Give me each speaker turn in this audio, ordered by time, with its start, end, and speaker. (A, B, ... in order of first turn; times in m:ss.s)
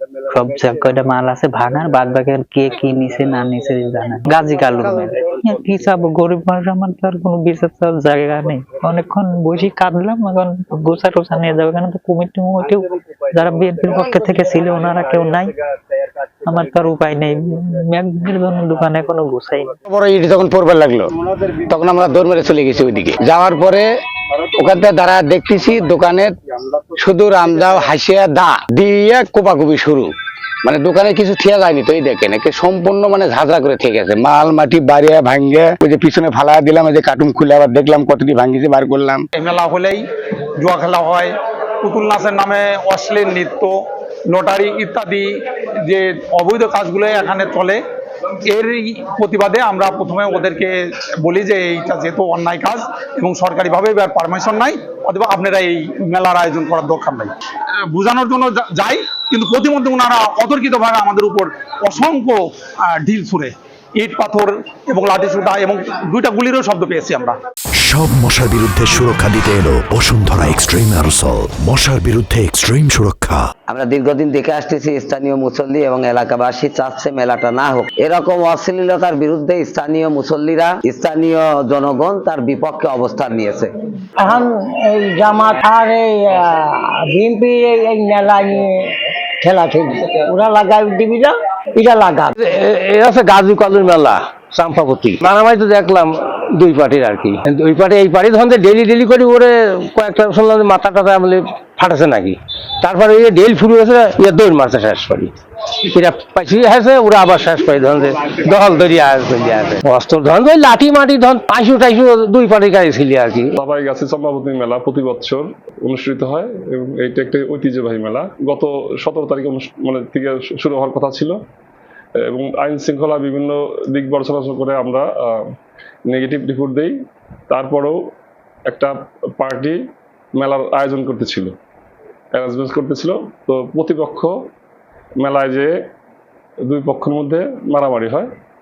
0:00.3-0:15.5 A
0:16.4-0:19.7 A
0:19.9-0:23.8 B
0:24.5-0:26.4 B
0:26.9-0:30.1 B
0:30.6-0:39.2 B
0:39.4-0:40.0 C
0:40.6-0:47.8 C
0:48.5-0:57.3 C
0:57.9-1:07.4 C
1:07.8-1:13.5 D
1:13.7-1:23.7 E
1:24.2-1:32.3 F
1:32.4-1:53.5 G
1:53.6-2:01.4 H
2:02.2-2:05.5 H
2:06.1-2:06.9 H
2:07.5-2:08.0 H
2:08.7-2:09.8 H
2:10.4-2:11.5 H
2:12.3-2:14.3 H
2:15.2-2:15.7 H
2:16.6-2:18.3 H